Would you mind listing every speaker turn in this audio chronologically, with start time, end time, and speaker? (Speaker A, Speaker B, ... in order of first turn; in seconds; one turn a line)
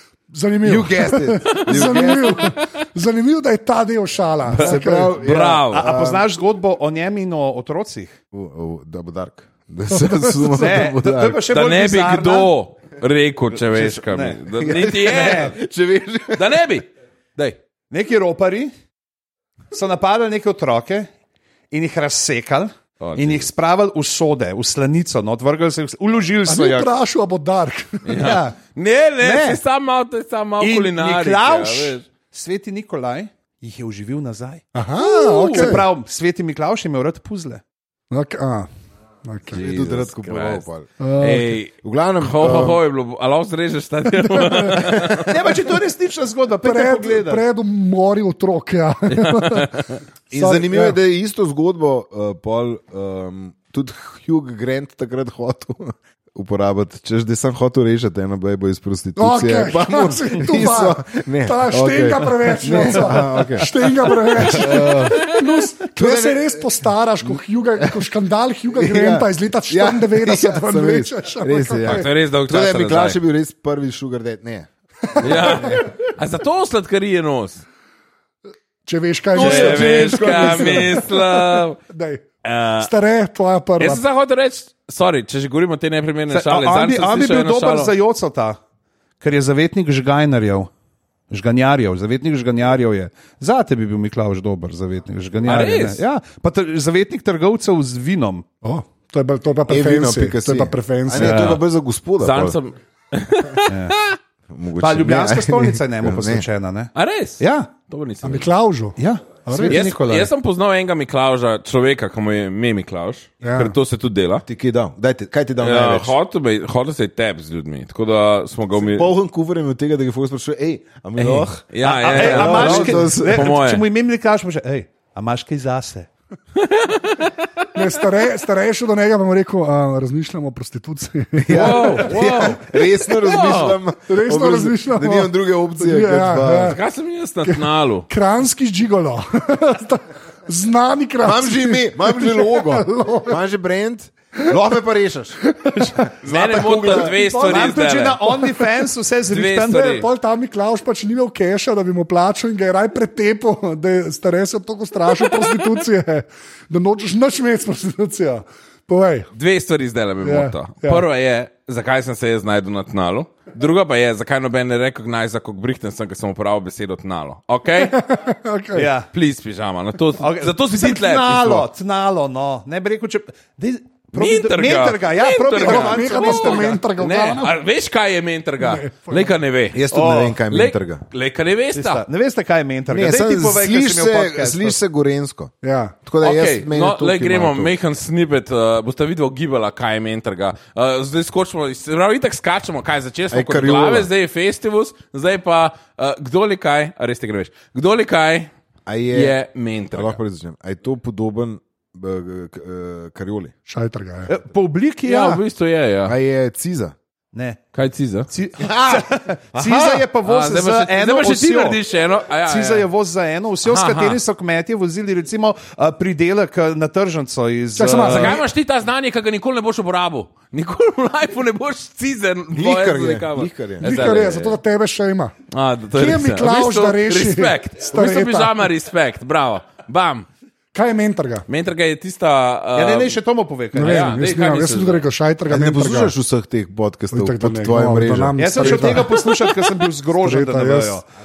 Speaker A: 0.3-5.2
Speaker B: 0.6-2.5
Speaker C: 4.5-5.9
Speaker B: 4.5-6.3
Speaker D: 5.6-8.1
Speaker B: 8.3-11.4
Speaker A: 9.9-10.8
Speaker D: 10.5-12.5
Speaker C: 11.5-15.6
Speaker D: 13.5-15.5
Speaker B: 14.6-16.6
Speaker C: 16.3-17.6
Speaker D: 17.9-18.7
Speaker D: 19.7-21.1
Speaker D: 21.7-26.9
Speaker C: 23.0-23.5
Speaker A: 26.5-28.2
Speaker C: 28.1-32.0
Speaker D: 28.1-28.6
Speaker D: 29.2-29.6
Speaker D: 30.6-34.6
Speaker A: 34.7-35.9
Speaker C: 35.0-35.8
Speaker D: 35.4-37.6
Speaker A: 38.1-38.7
Speaker A: 39.2-39.6
Speaker C: 39.5-40.6
Speaker B: 39.5-40.9
Speaker A: 41.0-41.5
Speaker C: 41.2-45.5
Speaker B: 41.8-42.8
Speaker A: 44.1-44.9
Speaker B: 44.8-45.3
Speaker D: 45.3-47.4
Speaker A: 46.6-49.8
Speaker C: 49.1-50.0
Speaker B: 50.3-65.2
Speaker A: 50.3-51.0
Speaker A: 59.2-72.1
Speaker C: 64.5-65.5
Speaker B: 66.0-68.1
Speaker B: 68.7-75.9
Speaker C: 71.8-73.2
Speaker A: 75.2-75.8
Speaker C: 75.2-77.6
Speaker A: 78.9-82.2
Speaker B: 79.3-81.0
Speaker C: 79.3-81.8
Speaker C: 82.4-82.9
Speaker A: 82.8-84.0
Speaker C: 83.8-87.9
Speaker D: 86.3-88.6
Speaker D: 89.2-90.7
Speaker D: 91.3-98.5
Speaker C: 95.5-96.0
Speaker A: 98.6-101.5
Speaker B: 99.7-102.6
Speaker C: 101.2-101.6
Speaker D: 101.2-101.6
Speaker C: 102.2-104.2
Speaker D: 103.7-104.0
Speaker B: 104.5-106.5
Speaker D: 104.8-107.7
Speaker C: 107.0-108.5
Speaker A: 108.2-109.0
Speaker D: 109.0-110.3
Speaker A: 109.5-109.9
Speaker C: 109.7-114.5
Speaker A: 113.4-113.8
Speaker B: 114.5-116.2
Speaker C: 115.6-119.1
Speaker B: 118.8-123.5
Speaker C: 121.2-123.8
Speaker D: 121.8-126.1
Speaker C: 126.6-127.3
Speaker A: 127.8-132.2
Speaker B: 131.4-136.8
Speaker C: 131.5-133.8
Speaker A: 134.1-136.8
Speaker C: 136.6-138.1
Speaker A: 137.4-143.4
Speaker B: 141.2-145.4
Speaker A: 145.6-146.1
Speaker B: 145.9-147.2
Speaker C: 146.2-148.3
Speaker A: 146.9-148.5
Speaker D: 147.4-150.1
Speaker C: 149.3-150.1
Speaker A: 149.8-159.3
Speaker C: 159.3-168.0
Speaker A: 160.2-161.1
Speaker A: 167.8-168.9
Speaker D: 168.8-169.1
Speaker C: 169.1-171.7
Speaker D: 170.2-176.8
Speaker C: 174.2-179.8
Speaker A: 175.6-177.5
Speaker A: 178.6-179.3
Speaker B: 179.7-181.0
Speaker D: 179.9-180.4
Speaker C: 180.5-182.1
Speaker D: 181.7-184.8
Speaker B: 182.9-185.5
Speaker A: 185.6-186.0
Speaker B: 186.1-187.7
Speaker C: 186.2-198.5
Speaker B: 193.3-194.1
Speaker B: 198.9-199.4
Speaker C: 199.1-200.2
Speaker B: 199.9-203.5
Speaker A: 203.7-204.3
Speaker D: 204.3-205.4
Speaker C: 205.1-206.2
Speaker B: 206.1-206.9
Speaker D: 207.3-207.6
Speaker C: 207.7-208.3
Speaker D: 208.3-211.8
Speaker B: 208.6-209.1
Speaker C: 209.6-212.9
Speaker D: 212.5-218.4
Speaker C: 213.6-214.2
Speaker A: 217.8-218.4
Speaker C: 218.0-224.6
Speaker B: 222.5-224.2
Speaker A: 223.8-225.3
Speaker C: 225.5-230.3
Speaker A: 225.9-228.7
Speaker A: 230.7-231.5
Speaker C: 231.5-233.2
Speaker D: 232.8-234.1
Speaker A: 233.7-236.1
Speaker C: 233.8-235.1
Speaker B: 235.5-238.9
Speaker A: 237.1-239.2
Speaker D: 238.4-241.1
Speaker A: 240.2-241.0